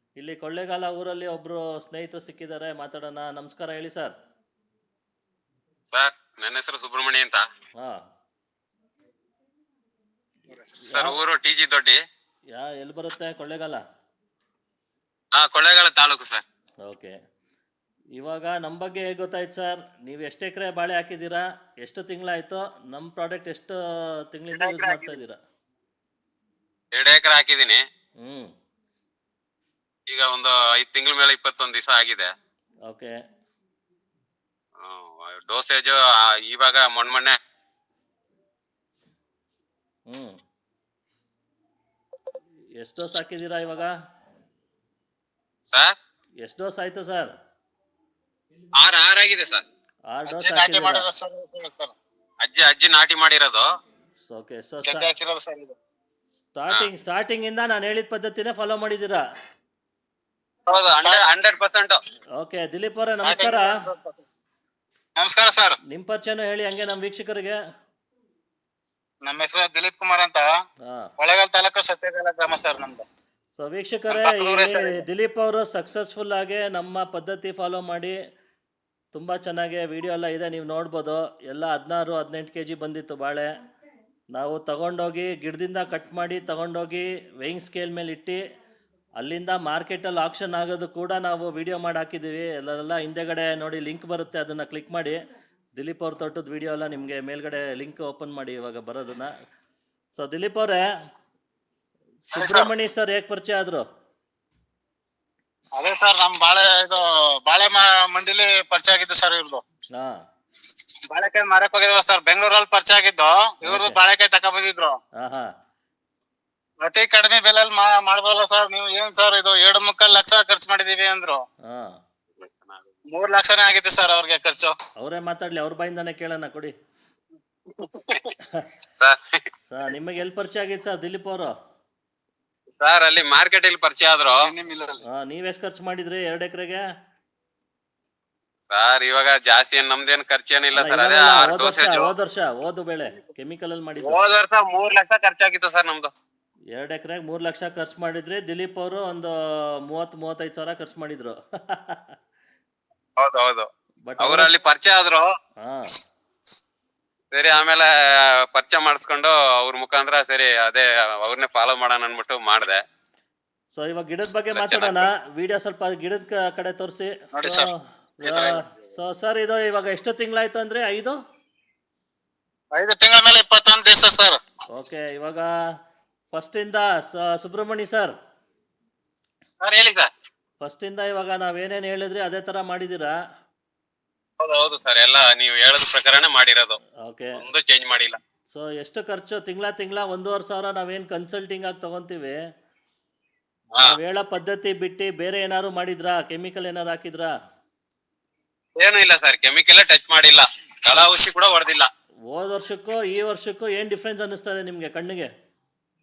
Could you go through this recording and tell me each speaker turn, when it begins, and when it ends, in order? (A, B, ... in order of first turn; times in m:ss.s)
0:00.2-0:04.1 A
0:05.9-0:07.4 B
0:10.7-0:12.0 B
0:10.9-0:11.2 A
0:12.5-0:13.8 A
0:15.3-0:16.4 B
0:16.8-0:17.2 A
0:18.2-0:23.8 A
0:24.3-0:25.4 A
0:24.6-0:25.0 B
0:26.9-0:27.8 B
0:28.2-0:28.5 A
0:30.1-0:32.3 B
0:32.9-0:33.2 A
0:34.8-0:37.4 B
0:40.1-0:40.4 A
0:42.8-0:43.9 A
0:46.4-0:47.3 A
0:48.8-0:49.6 B
0:50.1-0:51.1 A
0:50.3-0:52.0 C
0:52.4-0:53.6 B
0:54.3-0:55.1 A
0:54.9-0:55.8 C
0:56.6-0:59.2 A
1:00.7-1:02.0 B
1:02.4-1:03.8 A
1:03.2-1:04.2 C
1:05.2-1:05.8 C
1:05.9-1:07.6 A
1:09.2-1:10.5 C
1:11.2-1:13.0 C
1:13.6-1:18.2 A
1:14.1-1:15.0 C
1:19.1-1:23.5 A
1:24.4-1:28.4 A
1:29.2-1:35.2 A
1:35.8-1:39.3 A
1:40.2-1:40.8 A
1:42.2-1:43.8 A
1:42.4-1:42.7 C
1:45.8-1:49.6 C
1:51.1-1:55.0 C
1:53.6-1:54.0 A
1:55.2-1:55.5 A
1:56.8-2:01.4 C
2:01.7-2:02.0 A
2:02.4-2:02.9 B
2:03.1-2:04.7 C
2:05.0-2:06.7 A
2:09.0-2:09.4 B
2:09.7-2:11.5 A
2:12.8-2:14.4 B
2:14.4-2:15.0 C
2:15.1-2:16.9 A
2:18.7-2:22.1 B
2:20.7-2:24.2 A
2:24.0-2:26.1 B
2:26.7-2:29.3 A
2:29.9-2:32.2 A
2:33.2-2:33.7 B
2:34.1-2:34.5 A
2:34.2-2:35.3 B
2:35.6-2:35.9 A
2:37.3-2:37.9 B
2:38.5-2:42.8 B
2:43.8-2:51.2 A
2:44.5-2:45.1 B
2:47.3-2:47.7 C
2:48.2-2:48.6 B
2:48.3-2:48.6 C
2:52.7-2:54.4 C
2:54.7-2:55.5 A
2:56.3-2:58.1 A
2:59.6-3:00.1 B
3:00.6-3:03.2 A
3:04.4-3:06.8 B
3:07.0-3:07.4 A
3:07.4-3:08.2 B
3:08.5-3:12.4 A
3:13.8-3:17.3 A
3:18.8-3:21.9 B
3:22.3-3:25.3 A